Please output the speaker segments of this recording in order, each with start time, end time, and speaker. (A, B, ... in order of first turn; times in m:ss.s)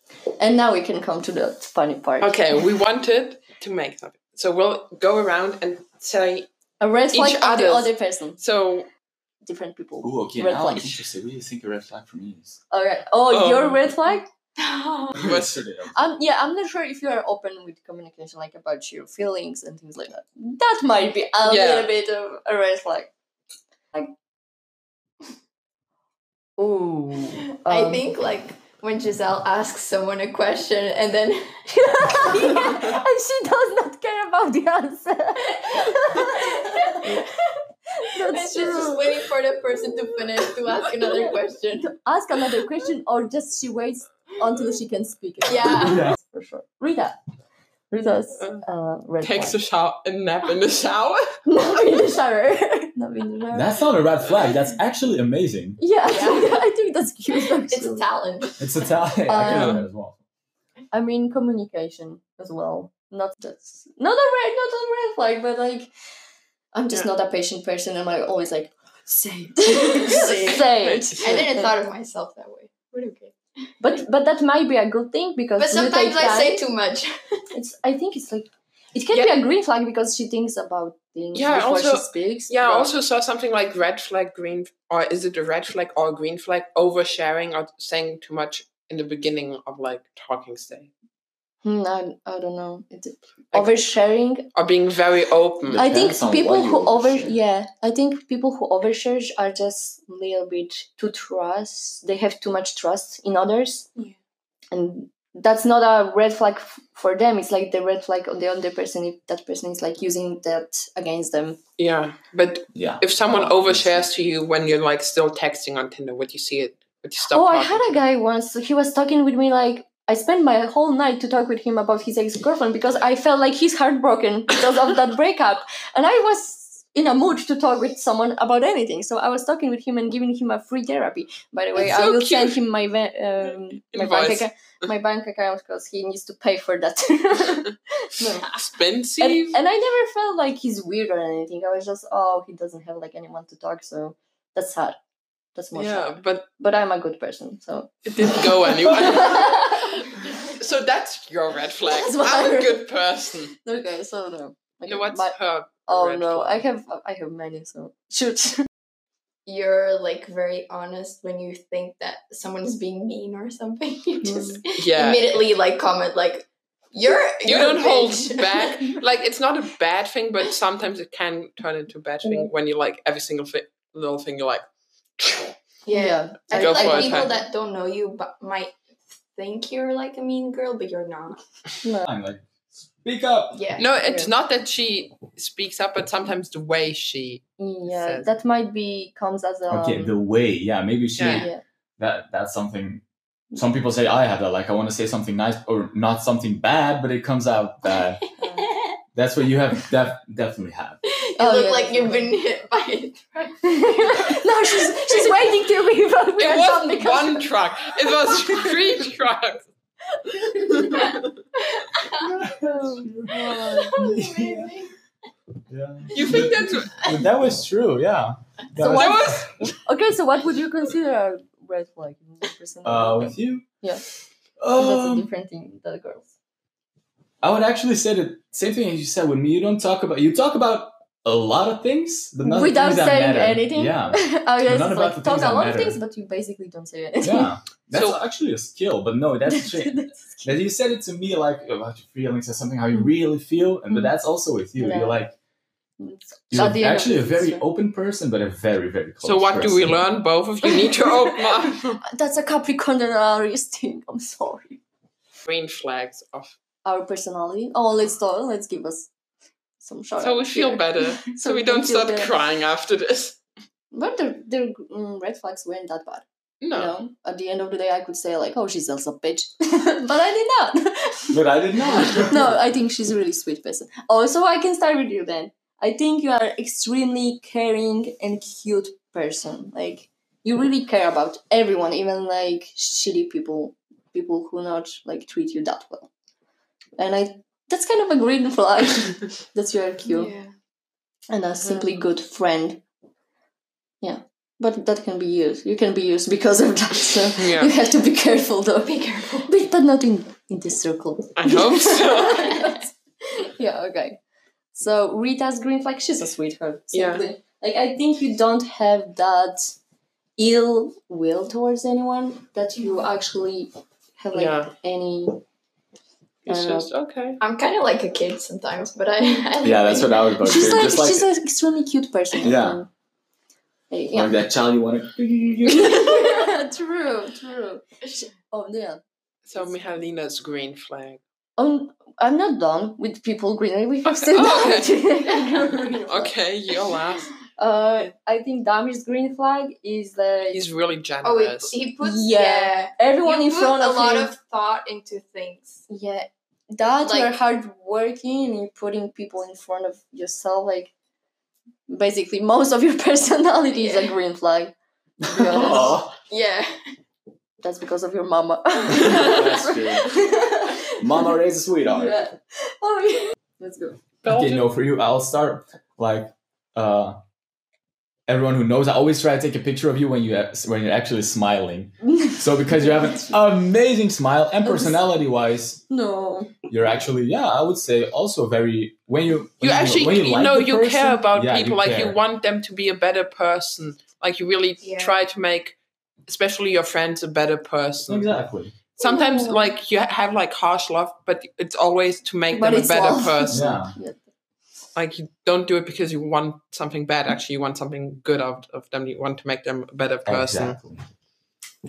0:00.4-0:02.5 A
0:02.2-0:06.5 B
0:06.8-0:08.4 A
0:07.1-0:08.9 B
0:09.5-0:11.0 A
0:10.0-0:12.6 C
0:12.7-0:14.3 A
0:13.3-0:13.8 B
0:14.6-0:15.2 D
0:15.1-0:16.0 C
0:15.2-0:15.6 B
0:15.9-0:23.1 A
0:21.4-0:21.9 B
0:26.6-0:28.1 A
0:27.6-0:32.9 D
0:31.7-0:37.2 A
0:36.0-0:37.3 D
0:38.0-0:39.2 A
0:38.3-0:42.0 D
0:41.9-0:47.2 A
0:45.4-0:46.1 D
0:45.8-0:46.2 C
0:47.9-0:49.6 A
0:49.2-0:51.4 B
0:51.5-0:53.7 A
0:53.5-0:55.8 C
0:55.8-0:58.0 A
0:56.1-0:56.6 D
0:57.6-0:58.7 D
0:58.6-1:00.2 C
0:59.3-0:59.9 A
0:59.4-0:59.8 B
1:00.9-1:05.9 A
1:06.7-1:11.7 A
1:09.7-1:10.6 D
1:10.1-1:11.5 B
1:11.2-1:13.3 D
1:13.8-1:16.6 A
1:15.6-1:17.4 D
1:17.5-1:22.9 A
1:21.3-1:30.9 B
1:31.6-1:34.5 A
1:34.5-1:35.8 B
1:35.7-1:37.4 C
1:35.8-1:43.9 A
1:44.7-1:51.6 A
1:51.8-1:58.0 B
1:52.8-1:54.1 C
1:57.3-2:18.5 A
2:11.8-2:12.6 B
2:13.9-2:14.5 B
2:18.2-2:19.6 B
2:19.2-2:25.0 A
2:25.6-2:30.1 A
2:25.8-2:26.5 B
2:28.1-2:33.5 B
2:31.9-2:32.9 A
2:33.6-2:35.4 A
2:34.9-2:36.6 B
2:35.9-2:38.7 A
2:39.5-2:49.0 D
2:44.2-2:44.6 A
2:44.8-2:45.4 B
2:47.4-2:54.7 B
2:52.2-2:52.5 A
2:55.2-2:55.6 B
2:55.9-3:01.4 D
2:55.9-2:57.4 A
2:56.5-2:57.4 B
3:01.8-3:02.1 A
3:02.0-3:02.5 C
3:03.0-3:03.6 C
3:03.5-3:03.8 D
3:03.8-3:08.3 B
3:04.0-3:04.3 A
3:07.6-3:10.2 A
3:09.7-3:13.0 C
3:11.2-3:11.5 B
3:11.2-3:11.6 A
3:13.5-3:18.2 C
3:18.4-3:18.8 A
3:18.6-3:19.0 D
3:19.2-3:21.0 C
3:21.1-3:25.4 D
3:21.4-3:22.4 A
3:23.6-3:27.6 A
3:26.4-3:29.7 B
3:28.2-3:28.7 A
3:30.2-3:31.2 A
3:30.8-3:31.2 B
3:31.8-3:32.3 D
3:32.1-3:34.8 C
3:32.7-3:34.1 A
3:33.6-3:34.9 D
3:35.7-3:39.7 C
3:36.1-3:37.1 B
3:38.8-3:44.0 A
3:38.8-3:39.7 B
3:42.8-3:43.7 C
3:44.6-3:45.3 C
3:44.7-3:46.3 A
3:47.4-3:56.0 C
3:52.4-3:57.6 A
3:57.2-4:05.4 C
3:57.9-3:58.2 B
3:59.5-4:00.6 A
4:04.8-4:05.2 A
4:06.0-4:07.7 A
4:06.5-4:10.0 C
4:09.2-4:12.0 B
4:10.7-4:11.3 A
4:12.0-4:14.8 A
4:15.4-4:16.6 B
4:16.8-4:19.1 A
4:19.8-4:22.3 A
4:20.2-4:23.4 B
4:23.9-4:31.4 A
4:26.6-4:26.9 B
4:31.3-4:32.6 C
4:31.9-4:46.1 A
4:47.0-4:50.3 A
4:50.1-4:50.5 D
4:51.3-4:52.8 A
4:54.0-5:04.2 A
4:57.4-4:57.7 B
4:58.8-4:59.5 D
5:01.4-5:02.7 B
5:04.7-5:09.8 A
5:06.9-5:07.2 B
5:10.4-5:15.4 A
5:14.3-5:14.7 B
5:16.5-5:17.4 B
5:16.5-5:16.9 A
5:17.4-5:20.4 D
5:19.6-5:21.3 C
5:20.4-5:22.9 A
5:22.4-5:22.8 C
5:23.9-5:24.4 A
5:24.1-5:26.4 C
5:25.7-5:29.0 A
5:29.5-5:31.2 B
5:29.6-5:30.0 A
5:31.6-5:36.4 A
5:34.1-5:37.3 B
5:37.6-5:40.6 A
5:40.5-5:41.8 B
5:41.2-5:45.8 D
5:42.0-5:44.3 A
5:45.9-5:50.9 A
5:47.0-5:47.4 D
5:51.9-5:56.0 A
5:53.7-5:54.1 D
5:55.2-5:56.1 C
5:55.5-5:56.7 D
5:57.6-6:01.3 A
5:58.9-6:00.2 C
6:01.0-6:02.2 C
6:01.8-6:04.0 A
6:04.2-6:04.7 B
6:04.2-6:07.2 C
6:08.3-6:15.8 C
6:12.1-6:13.4 A
6:14.6-6:15.0 A
6:15.9-6:16.6 A
6:16.7-6:22.2 C
6:19.6-6:25.8 B
6:24.8-6:25.2 D
6:26.3-6:28.3 B
6:28.1-6:28.8 C
6:29.0-6:33.8 B
6:29.0-6:29.6 A
6:32.5-6:34.2 A
6:33.5-6:34.0 C
6:35.0-6:40.8 B
6:40.3-6:41.0 C